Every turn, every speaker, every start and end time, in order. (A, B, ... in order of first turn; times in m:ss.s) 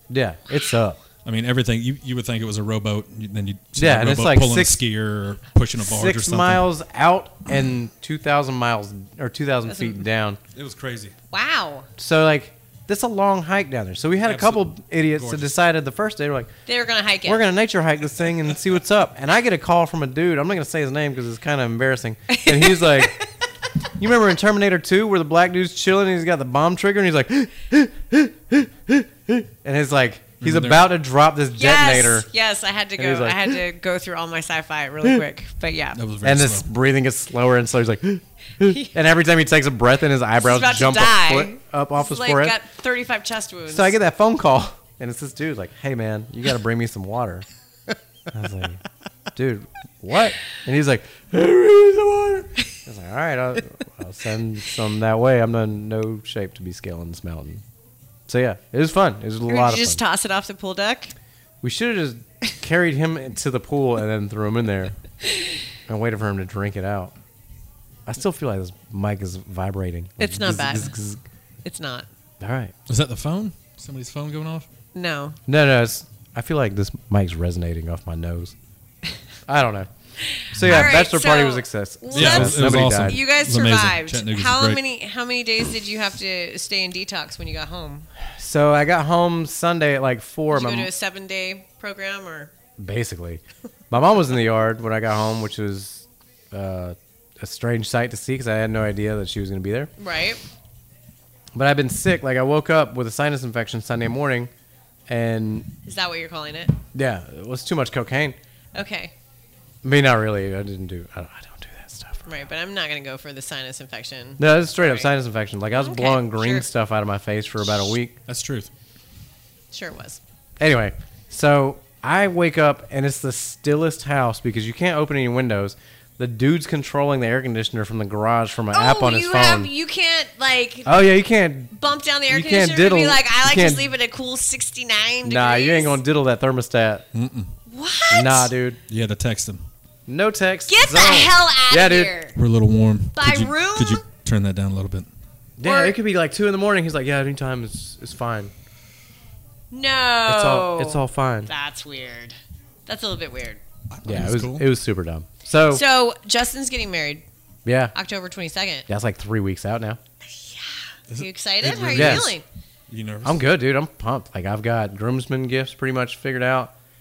0:00.1-0:01.0 A
0:01.2-0:06.6 B
0:03.8-0:04.8 A
0:05.8-0:10.4 A
0:09.7-0:10.0 C
0:10.5-0:11.1 B
0:11.3-0:11.9 C
0:12.0-0:16.5 A
0:14.2-0:15.6 B
0:16.7-0:17.5 C
0:17.2-0:23.2 A
0:22.3-0:23.3 C
0:24.0-0:32.3 A
0:30.4-0:30.9 B
0:31.6-0:36.0 C
0:33.0-0:33.6 A
0:36.0-0:36.7 B
0:36.2-0:42.6 A
0:40.4-0:43.9 C
0:43.7-0:47.4 A
0:48.3-0:48.8 A
0:49.4-0:57.6 A
0:58.3-1:00.0 A
0:59.4-1:01.1 C
1:01.6-1:04.9 A
1:05.3-1:05.6 C
1:05.9-1:07.1 A
1:08.1-1:11.2 A
1:10.2-1:10.9 C
1:11.6-1:12.1 C
1:12.4-1:12.7 A
1:12.9-1:14.7 B
1:14.9-1:15.4 C
1:15.5-1:18.5 A
1:19.5-1:19.9 A
1:20.2-1:28.1 C
1:20.4-1:23.2 A
1:20.6-1:20.9 B
1:22.1-1:24.8 B
1:28.4-1:30.9 A
1:30.5-1:32.5 C
1:32.8-1:39.9 A
1:40.0-1:40.4 C
1:41.5-1:44.5 A
1:45.1-1:45.7 A
1:45.9-1:46.8 C
1:46.9-1:48.4 A
1:48.7-1:49.1 C
1:49.8-1:52.3 A
1:52.2-1:55.1 C
1:54.4-1:58.2 A
1:55.7-1:56.6 C
1:58.3-1:58.7 B
1:59.7-2:00.2 C
2:00.6-2:09.7 A
2:08.7-2:11.1 C
2:10.9-2:11.7 A
2:11.7-2:16.0 C
2:12.3-2:13.9 A
2:15.2-2:17.1 A
2:17.1-2:17.5 B
2:17.7-2:18.5 C
2:18.1-2:18.8 A
2:18.9-2:19.6 B
2:20.1-2:22.1 A
2:20.7-2:22.4 C
2:22.4-2:25.1 B
2:23.2-2:24.0 C
2:25.6-2:28.5 A
2:25.6-2:26.0 C
2:29.7-2:33.6 C
2:30.2-2:31.5 A
2:33.9-2:34.6 B
2:34.0-2:35.8 A
2:35.7-2:37.2 C
2:37.6-2:37.9 A
2:37.9-2:38.9 C
2:38.9-2:40.0 A
2:40.3-2:42.4 C
2:41.1-2:42.4 B
2:41.9-2:42.3 A
2:42.9-2:43.4 B
2:43.2-2:46.7 A